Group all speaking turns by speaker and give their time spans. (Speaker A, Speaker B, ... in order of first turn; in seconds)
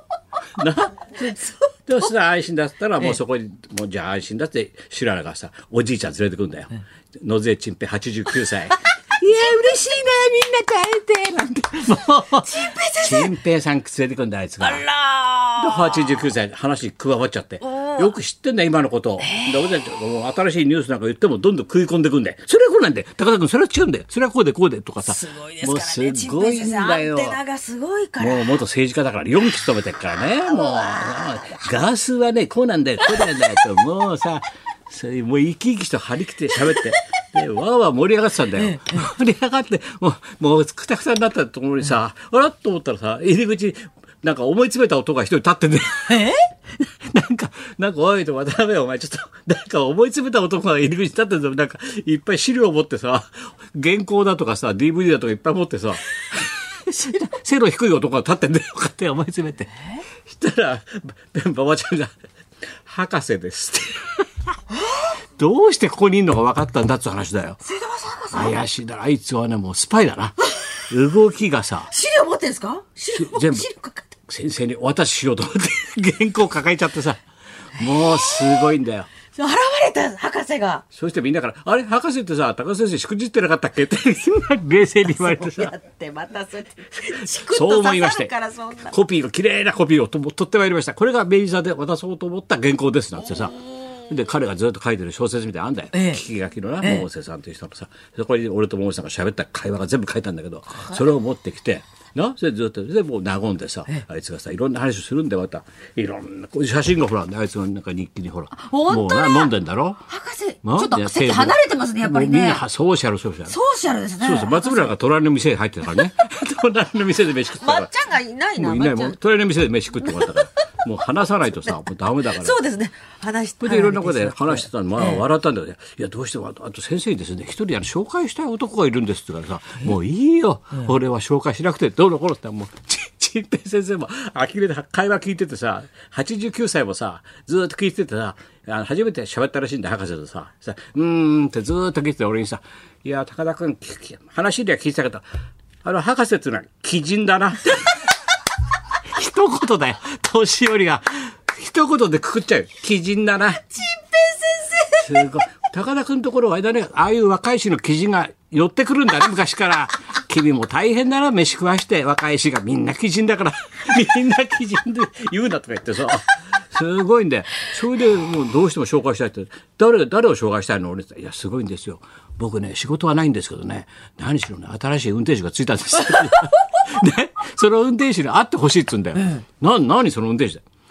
Speaker A: 0.6-14.8, 15.6-27.4, 28.2-46.3, 46.8-62.1, 62.8-64.2, 65.4-67.6, 68.3-70.4, 70.9-71.9, 73.1-73.7, 74.3-77.2, 77.8-79.1, 80.9-85.7, 87.1-88.3, 88.9-110.0, 110.6-113.5, 114.2-117.9, 118.6-122.6, 123.6-145.2, 145.8-148.1, 149.1-153.6, 155.0-180.6
Speaker B: 12.4-13.3, 14.6-16.2, 17.6-18.1, 19.2-19.7, 25.0-28.6, 30.5-31.3, 36.5-37.0, 38.6-39.1, 46.1-46.5, 64.8-65.1, 67.6-68.6, 71.9-74.1, 77.9-78.6, 79.3-80.8, 85.1-88.9, 95.9-96.2, 96.8-97.1, 108.5-109.5, 110.0-112.6, 113.5-114.9, 117.6-119.2, 120.0-120.6, 122.3-125.2, 153.7-155.3, 176.1-176.5, 179.2-179.4